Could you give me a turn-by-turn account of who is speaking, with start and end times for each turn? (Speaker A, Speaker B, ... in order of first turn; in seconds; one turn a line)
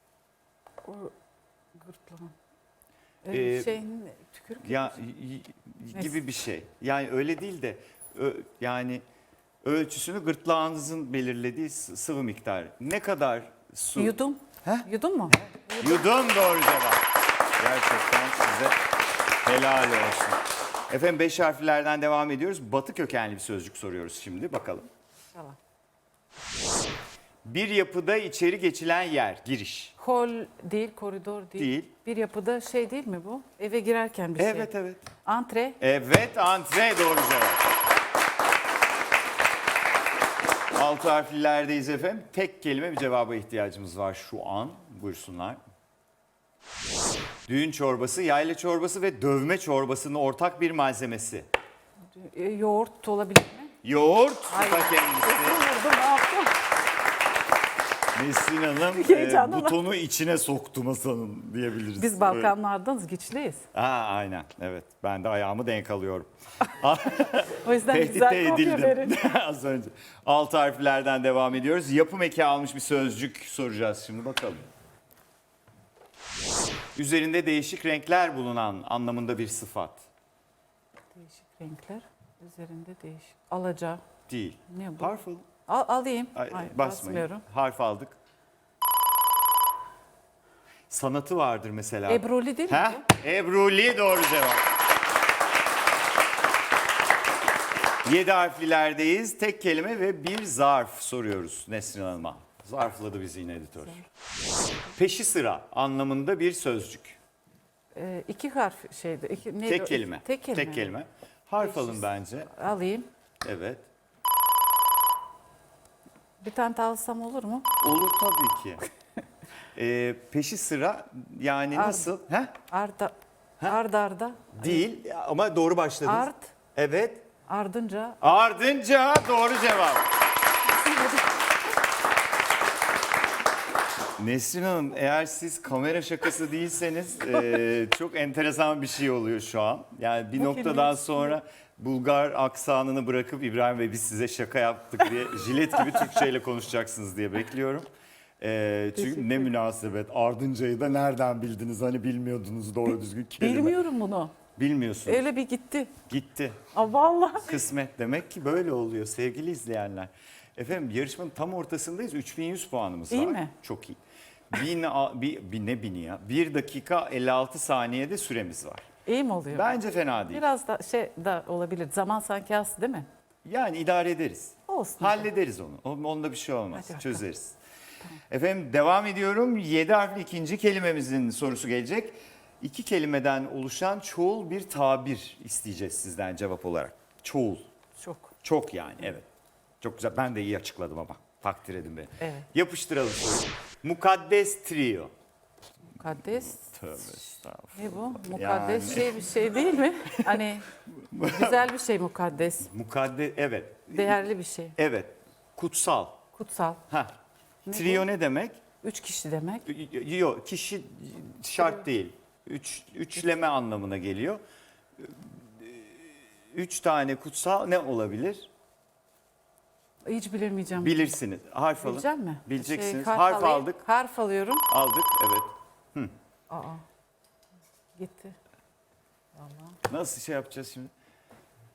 Speaker A: 0.8-1.1
Speaker A: 1.8-2.4
Speaker A: 3.2-5.0
Speaker B: 3.3-3.8
Speaker B: 4.6-9.0
Speaker B: 9.6-17.1
Speaker A: 14.0-16.1
Speaker B: 17.6-18.8
Speaker B: 19.4-24.9
Speaker B: 27.4-30.0
Speaker A: 30.0-34.7
Speaker B: 31.6-31.9
Speaker B: 34.4-35.1
Speaker A: 35.2-35.8
Speaker B: 35.8-37.7
Speaker B: 40.7-45.6
Speaker B: 47.5-51.5
Speaker A: 52.1-53.7
Speaker B: 53.8-55.6
Speaker A: 54.5-56.6
Speaker B: 58.1-62.5
Speaker A: 58.9-59.8
Speaker A: 62.0-63.6
Speaker B: 63.7-74.7
Speaker A: 67.3-69.2
Speaker B: 77.0-80.1
Speaker A: 81.2-84.0
Speaker B: 84.3-85.5
Speaker A: 84.7-85.1
Speaker A: 85.7-87.4
Speaker B: 86.3-88.2
Speaker B: 90.9-94.7
Speaker A: 92.1-93.0
Speaker B: 98.0-104.0
Speaker B: 105.0-107.2
Speaker A: 108.0-110.9
Speaker B: 109.7-112.5
Speaker A: 111.6-113.1
Speaker B: 113.4-113.8
Speaker A: 116.4-117.7
Speaker B: 117.8-118.8
Speaker B: 119.7-122.6
Speaker A: 121.7-122.1
Speaker A: 122.7-124.8
Speaker B: 124.5-127.3
Speaker A: 126.1-126.5
Speaker A: 127.5-128.2
Speaker B: 128.2-130.1
Speaker A: 130.7-131.2
Speaker B: 134.2-147.9
Speaker A: 140.4-141.2
Speaker B: 148.4-153.8
Speaker A: 149.0-149.5
Speaker A: 153.4-154.4
Speaker B: 154.6-155.3
Speaker A: 155.1-155.9
Speaker B: 156.1-156.6
Speaker A: 156.7-157.6
Speaker B: 157.4-164.0
Speaker A: 163.1-163.5
Speaker B: 164.5-168.9
Speaker A: 169.1-173.1
Speaker B: 169.5-170.4
Speaker B: 173.4-177.6
Speaker A: 174.7-175.3
Speaker A: 176.7-177.2
Speaker B: 178.3-187.6
Speaker A: 188.0-188.3
Speaker B: 188.4-189.3
Speaker B: 189.8-195.1
Speaker A: 192.2-192.5
Speaker A: 195.9-196.6
Speaker B: 196.3-199.6
Speaker A: 197.8-202.7
Speaker B: 200.9-201.7
Speaker B: 202.6-204.2
Speaker A: 203.9-204.8
Speaker B: 204.8-206.2
Speaker A: 206.3-206.8
Speaker B: 206.9-207.1
Speaker A: 207.7-208.1
Speaker B: 207.7-208.6
Speaker A: 208.8-209.7
Speaker B: 209.7-214.4
Speaker B: 215.0-216.0
Speaker B: 216.5-218.5
Speaker A: 220.1-221.1
Speaker B: 220.8-223.8
Speaker A: 221.8-224.7
Speaker B: 224.7-226.1
Speaker A: 226.5-226.8
Speaker A: 228.0-228.4
Speaker A: 229.4-229.8
Speaker B: 229.9-230.9